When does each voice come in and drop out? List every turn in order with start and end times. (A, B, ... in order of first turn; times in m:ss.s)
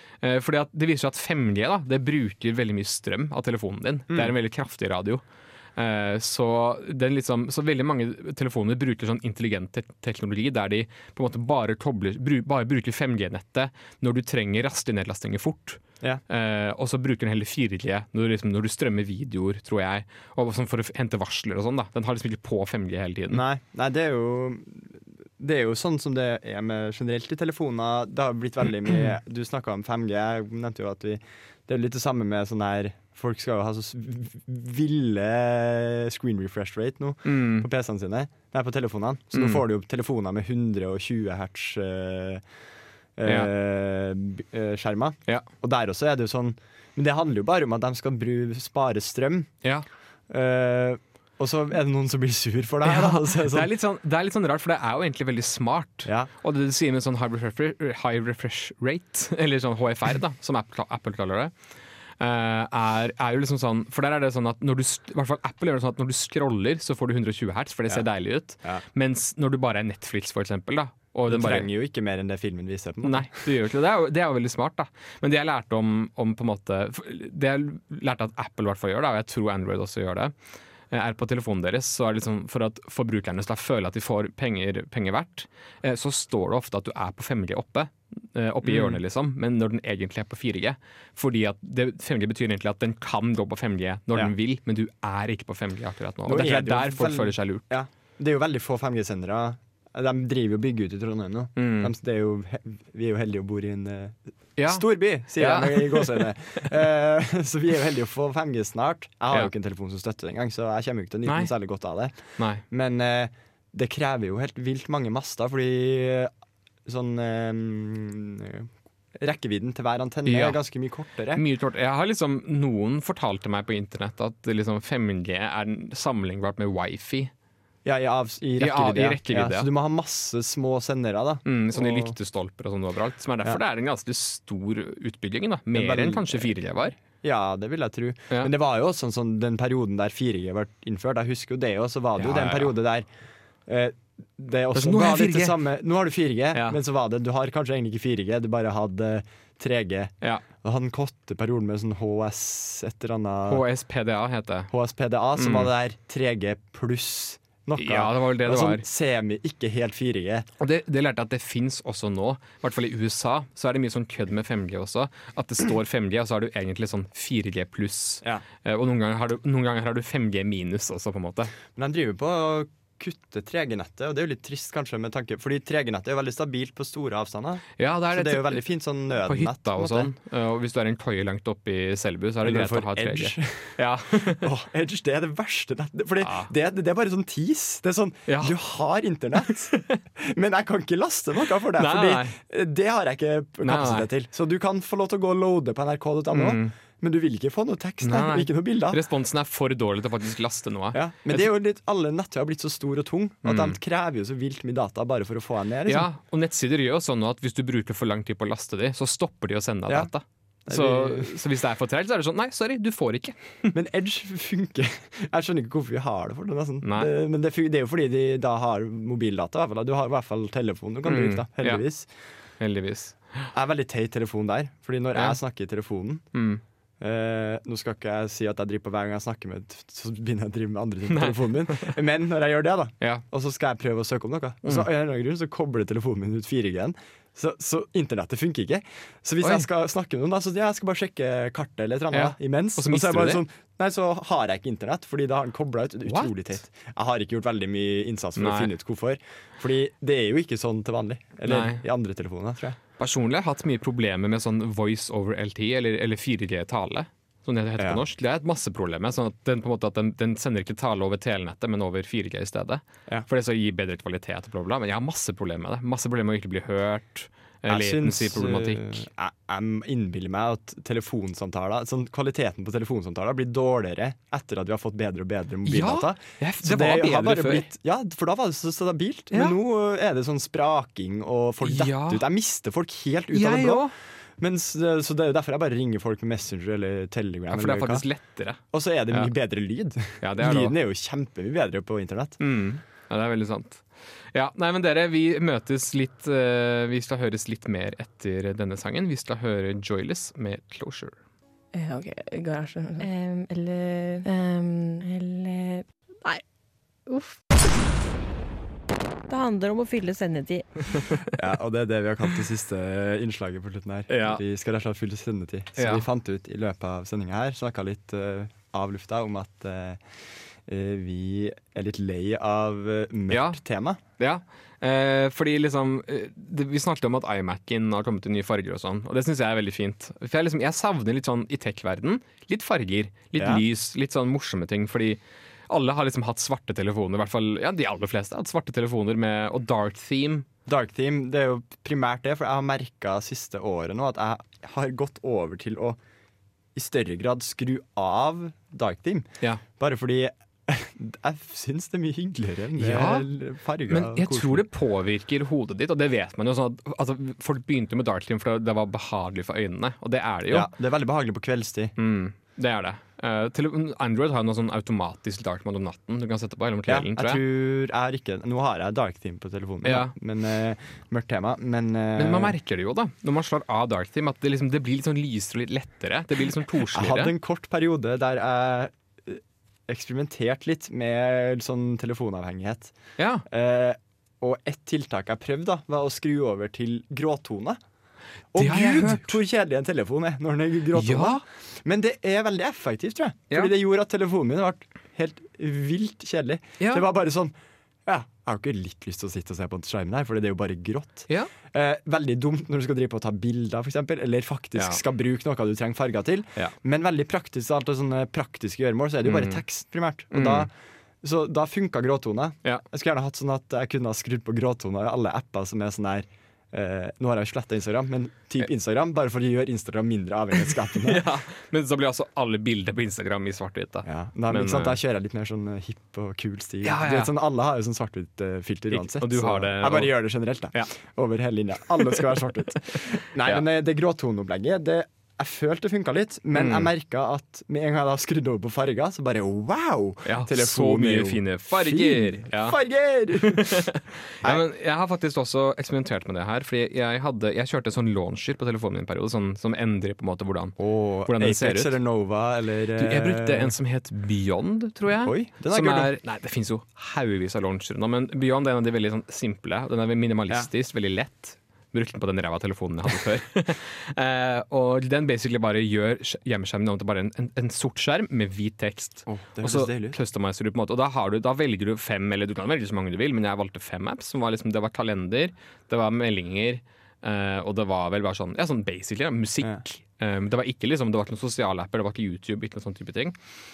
0:00.2-0:05.2 A
0:05.8-0:23.4 A
0:23.3-0:42.4 B
0:37.2-0:37.7 A
0:39.3-0:39.6 A
0:43.2-0:49.5 B
0:43.2-0:43.5 A
0:50.3-0:53.7 B
0:52.8-1:01.5 A
0:56.0-0:56.3 B
1:02.2-1:11.7 A
1:11.3-1:13.5 B
1:13.0-1:20.3 A
1:20.9-1:37.7 A
1:28.6-1:29.0 B
1:36.2-1:56.3 B
1:41.6-1:41.9 A
1:44.6-1:46.6 A
1:51.2-1:51.5 A
1:52.4-1:52.6 A
1:56.8-2:01.4 B
2:00.3-2:00.6 A
2:01.3-2:07.3 A
2:07.8-2:12.2 B
2:08.6-2:09.7 A
2:11.5-2:17.0 A
2:15.7-2:23.1 B
2:22.2-2:22.7 A
2:23.7-2:33.6 B
2:24.7-2:25.6 A
2:26.5-2:26.8 A
2:33.5-2:34.7 A
2:34.7-2:40.5 B
2:35.4-2:35.7 A
2:37.8-2:38.8 A
2:40.6-2:51.5 A
2:51.8-3:00.1 B
2:57.8-2:58.6 A
2:59.2-3:04.5 A
3:02.4-3:19.0 B
3:06.2-3:06.5 A
3:08.3-3:08.6 A
3:09.7-3:10.0 A
3:11.8-3:12.4 A
3:13.6-3:14.1 A
3:16.3-3:16.7 A
3:18.0-3:21.5 A
3:20.9-3:26.1 B
3:23.4-3:23.8 A
3:25.9-3:33.7 A
3:29.9-3:30.1 B
3:30.7-3:31.4 B
3:33.7-3:42.1 B
3:36.8-3:37.1 A
3:41.0-3:41.8 A
3:42.6-3:43.5 A
3:43.5-3:46.3 B
3:46.3-3:46.6 A
3:47.0-4:12.8 B
3:51.1-3:52.0 A
3:59.4-3:59.7 A
4:02.1-4:03.4 A
4:06.1-4:06.3 A
4:08.4-4:08.7 A
4:11.5-4:11.8 A
4:13.0-4:29.0 A
4:27.7-4:48.1 B
4:35.6-4:37.7 A
4:39.3-4:39.6 A
4:41.6-4:42.2 A
4:43.3-4:43.9 A
4:47.5-4:49.3 A
4:48.6-4:52.4 B
4:50.2-4:50.8 A
4:52.4-5:01.2 A
5:01.7-5:06.4 C
5:07.1-5:07.4 C
5:09.3-5:11.0 C
5:11.3-5:20.0 B
5:14.1-5:14.4 A
5:15.8-5:16.0 A
5:20.6-5:24.0 B
5:23.3-5:23.6 A
5:24.2-5:40.5 A
5:33.4-5:33.6 B
5:40.7-5:46.0 B
5:46.8-5:54.6 B
5:52.8-5:53.3 A
5:53.9-6:00.7 A
6:00.5-6:02.0 B
6:02.0-6:07.4 A
6:06.9-6:12.6 B
6:09.8-6:10.2 A
6:12.2-6:17.3 A
6:16.9-6:23.0 B
6:23.2-6:23.4 A
6:23.5-6:27.8 B
6:28.5-6:37.5 B
6:28.6-6:29.4 A
6:30.9-6:31.4 A
6:36.8-6:37.1 A
6:38.1-6:50.7 B
6:49.2-6:49.6 A
6:50.3-6:50.7 A
6:51.2-7:01.3 B
7:01.0-7:05.0 A
7:04.0-7:23.8 B
7:06.8-7:07.3 A
7:08.9-7:10.2 A
7:13.0-7:13.6 A
7:16.5-7:16.9 A
7:20.2-7:22.8 A
7:23.4-7:32.0 A
7:30.8-7:33.8 B
7:33.0-8:03.4 A
7:35.2-7:36.1 B
7:49.3-7:50.2 B